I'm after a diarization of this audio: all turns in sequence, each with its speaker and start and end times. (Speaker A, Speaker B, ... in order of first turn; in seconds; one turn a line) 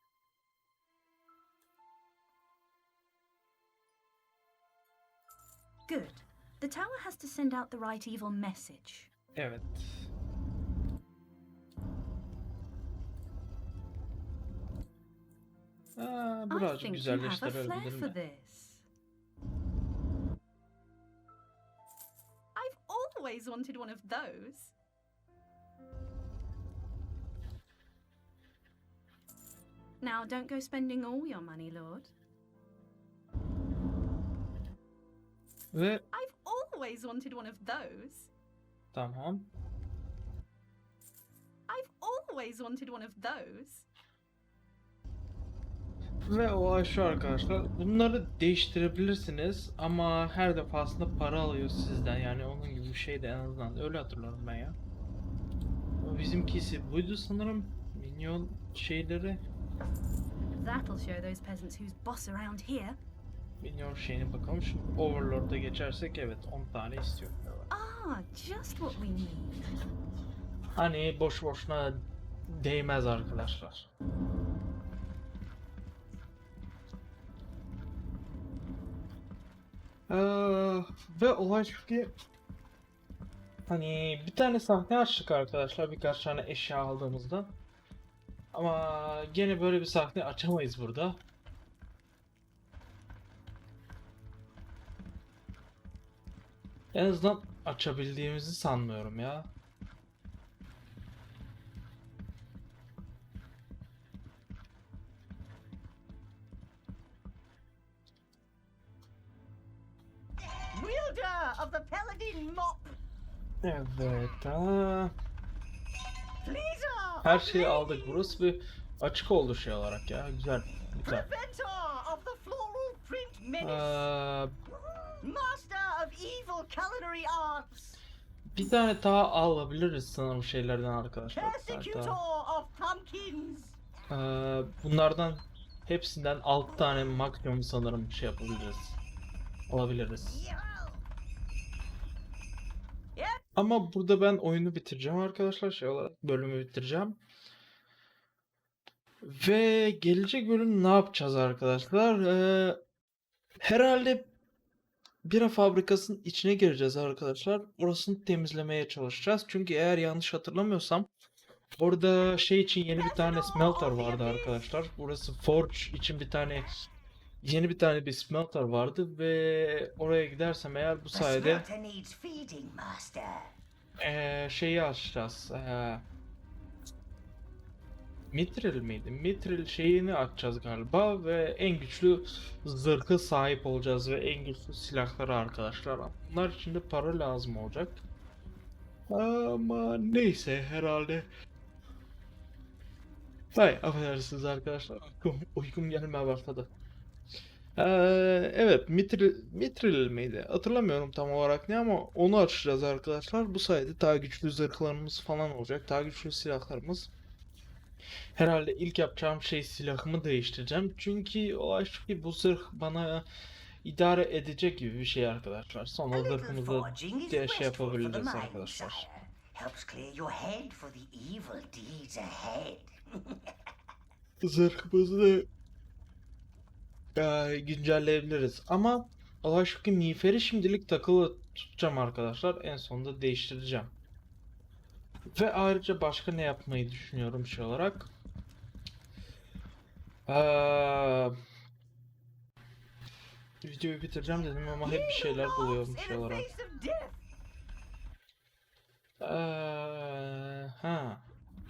Speaker A: 5.9-9.1
Speaker B: 9.4-10.1
Speaker B: 16.0-18.2
Speaker A: 16.5-18.9
Speaker A: 22.6-24.7
Speaker A: 30.0-32.1
Speaker B: 35.7-36.0
Speaker A: 36.1-38.3
Speaker B: 38.9-39.5
Speaker A: 41.7-43.9
Speaker B: 46.2-54.8
Speaker B: 56.0-59.4
Speaker A: 60.6-63.0
Speaker B: 63.6-67.7
Speaker A: 67.7-69.6
Speaker B: 70.8-73.9
Speaker B: 80.1-82.1
Speaker B: 83.7-87.5
Speaker B: 88.5-91.2
Speaker B: 96.9-99.5
Speaker C: 110.7-113.0
Speaker B: 113.6-115.1
Speaker C: 116.4-118.3
Speaker B: 117.2-121.3
Speaker C: 121.1-124.1
Speaker B: 123.6-124.5
Speaker C: 124.7-128.0
Speaker B: 128.5-132.2
Speaker C: 131.3-133.8
Speaker B: 134.1-139.0
Speaker B: 139.7-140.5
Speaker C: 140.2-141.0
Speaker C: 143.2-143.4
Speaker B: 143.6-147.2
Speaker B: 149.2-152.8
Speaker B: 153.6-154.3
Speaker B: 155.2-161.1
Speaker B: 161.8-166.9
Speaker C: 163.1-164.5
Speaker A: 163.9-164.2
Speaker B: 167.4-171.7
Speaker C: 171.1-173.6
Speaker B: 174.0-176.1
Speaker B: 178.3-188.0
Speaker B: 189.1-191.3
Speaker B: 193.5-196.7
Speaker B: 197.8-207.1
Speaker B: 208.4-213.3
Speaker B: 213.8-219.1
Speaker C: 216.1-223.6
Speaker B: 224.4-225.5
Speaker B: 227.2-233.9
Speaker B: 235.3-238.1
Speaker B: 240.3-241.4
Speaker B: 243.6-246.5
Speaker C: 244.8-247.2
Speaker B: 249.2-251.3